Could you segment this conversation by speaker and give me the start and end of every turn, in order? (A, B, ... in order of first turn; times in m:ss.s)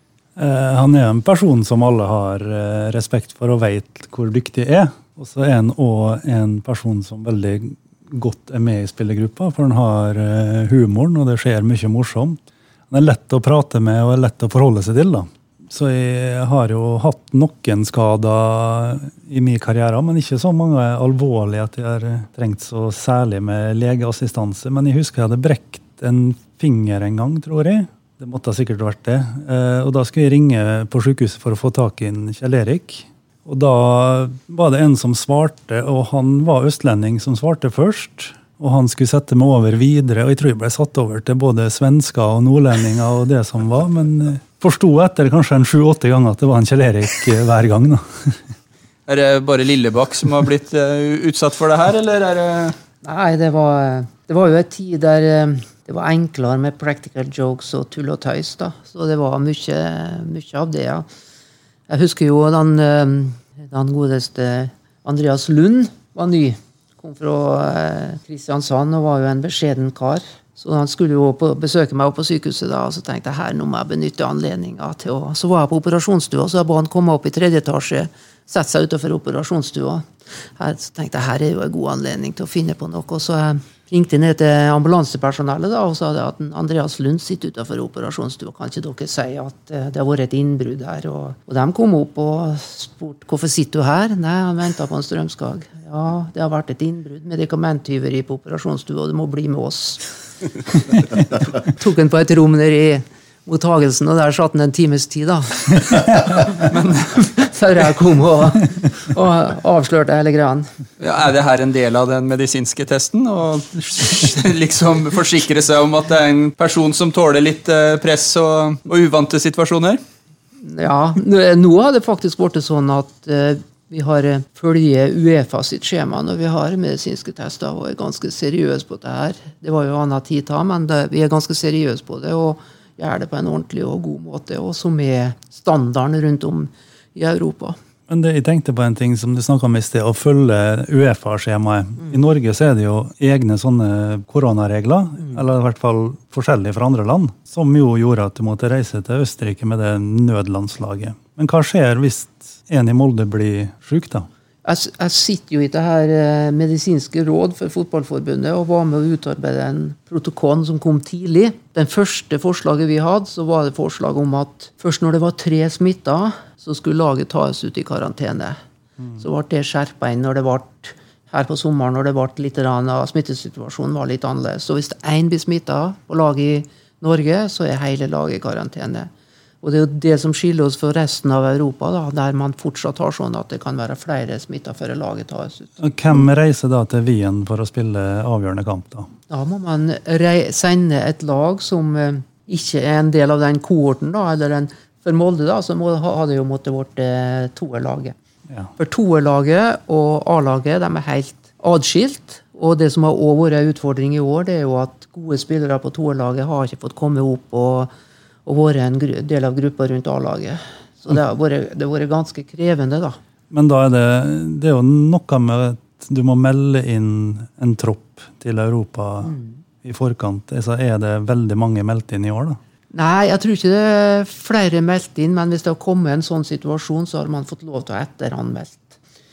0:00.4-0:48.4 A
0:49.1-0:52.8 B
0:53.0-1:01.0 C
1:01.9-1:20.0 C
1:20.6-1:40.0 C
1:41.6-1:50.7 C
1:46.6-1:47.3 B
1:51.0-2:00.0 B
2:00.6-2:17.8 C
2:18.1-2:34.3 A
2:34.6-2:48.6 C
2:49.2-2:59.1 C
2:59.6-3:06.2 C
3:05.8-3:09.1 A
3:09.3-3:18.1 C
3:18.8-3:27.9 C
3:28.4-3:33.2 C
3:33.5-3:42.6 A
3:39.2-3:39.6 C
3:42.9-3:49.0 C